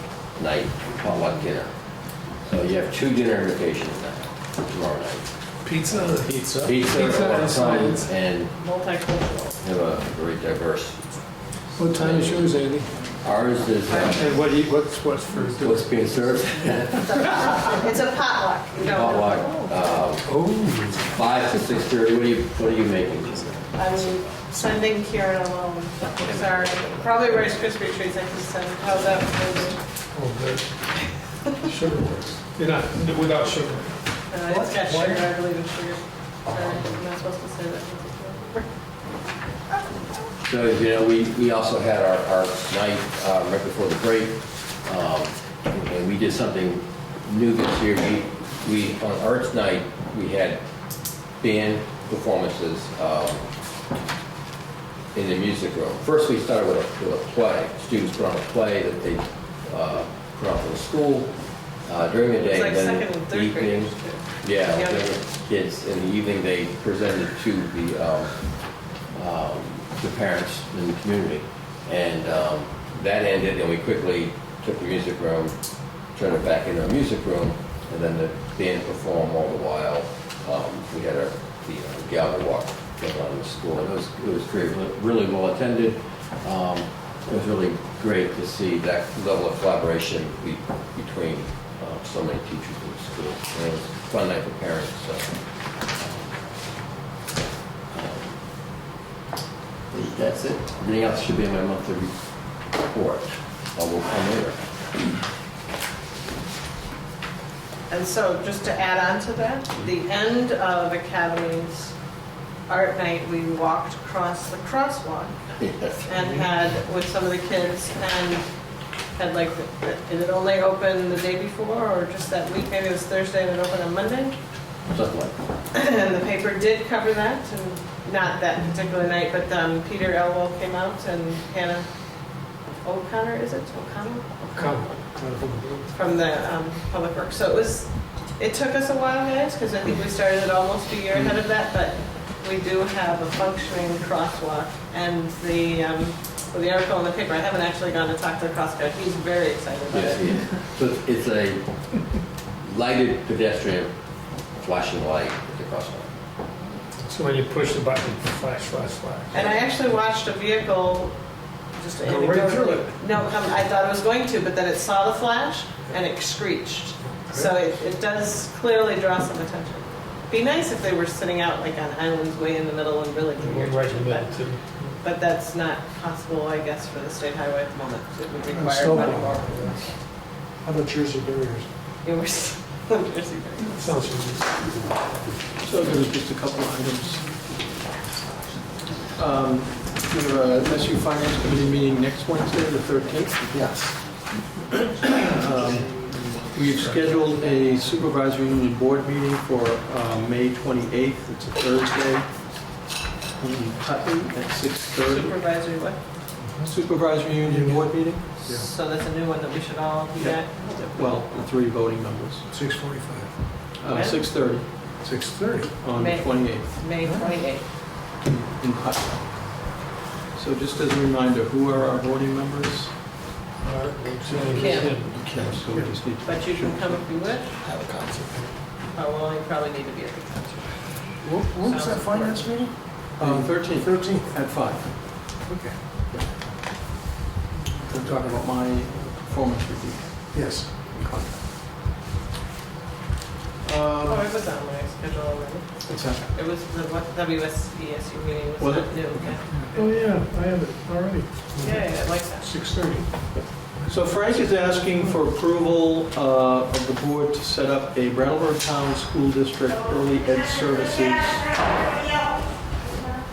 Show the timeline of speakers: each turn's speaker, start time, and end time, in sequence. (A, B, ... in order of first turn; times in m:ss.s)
0:00.4-0:01.7 A
0:02.4-0:05.2 A
0:05.6-0:08.1 B
0:06.2-0:06.8 C
0:06.6-0:08.5 A
0:08.6-0:09.6 D
0:09.6-0:11.0 A
0:11.8-0:12.9 B
0:11.8-0:12.5 A
0:13.2-0:14.3 A
0:13.9-0:14.4 D
0:14.0-0:16.0 B
0:15.6-0:17.6 A
0:17.0-0:19.8 D
0:18.8-0:20.3 A
0:20.2-0:21.1 B
0:21.1-0:23.6 A
0:23.7-0:29.8 D
0:30.1-0:30.6 B
0:31.6-0:34.0 B
0:34.3-0:38.7 D
0:34.5-0:35.2 C
0:40.4-0:50.6 A
0:51.4-0:53.4 A
0:55.1-1:01.3 A
1:01.8-1:08.4 A
1:02.4-1:05.2 D
1:09.1-1:15.6 A
1:16.1-1:35.3 A
1:35.9-1:36.4 A
1:37.9-1:38.4 A
1:39.9-1:42.1 A
1:42.7-1:44.6 A
1:47.9-1:51.9 D
1:52.7-1:55.4 D
1:55.6-1:56.0 A
1:56.0-1:58.4 D
1:59.2-2:04.4 D
2:04.9-2:05.4 A
2:05.7-2:11.9 D
2:12.8-2:14.4 D
2:14.5-2:15.9 B
2:15.9-2:30.3 D
2:29.9-2:31.7 A
2:32.6-2:33.9 A
2:34.6-2:36.1 A
2:37.0-2:39.4 B
2:39.3-2:41.2 D
2:41.8-2:54.4 D
2:42.0-2:43.0 C
2:47.1-2:47.5 C
2:53.4-2:54.9 B
2:55.0-3:00.0 D
2:58.5-2:59.7 C
2:59.0-2:59.8 B
3:00.6-3:01.7 C
3:02.0-3:03.9 D
3:03.7-3:05.0 B
3:05.6-3:07.2 E
3:09.1-3:13.5 E
3:13.5-3:13.9 C
3:14.9-3:22.3 E
3:23.4-3:25.4 E
3:25.0-3:26.0 D
3:26.4-3:26.7 C
3:26.6-3:28.2 E
3:27.4-3:27.9 C
3:28.4-3:31.2 D
3:30.2-3:32.5 E
3:32.5-3:33.3 C
3:33.8-3:34.6 E
3:33.9-3:34.4 D
3:35.0-3:35.8 C
3:35.8-3:36.7 E
3:35.9-3:37.6 D
3:37.0-3:37.4 C
3:38.2-3:39.2 E
3:40.3-3:42.9 E
3:43.6-3:45.2 B
3:44.5-3:44.9 D
3:44.6-3:47.1 E
3:46.2-3:47.6 D
3:47.7-3:48.4 C
3:48.9-3:50.8 D
3:51.2-3:54.4 C
3:51.6-3:52.7 D
3:53.2-3:54.9 E
3:55.5-3:55.8 C
3:57.8-4:00.3 E
4:00.3-4:00.9 C
4:00.9-4:01.4 E
4:03.6-4:04.3 E
4:04.0-4:05.7 D
4:05.9-4:06.2 E
4:06.3-4:09.4 D
4:08.6-4:09.4 E
4:09.7-4:13.0 C
4:11.6-4:12.6 D
4:13.9-4:21.5 E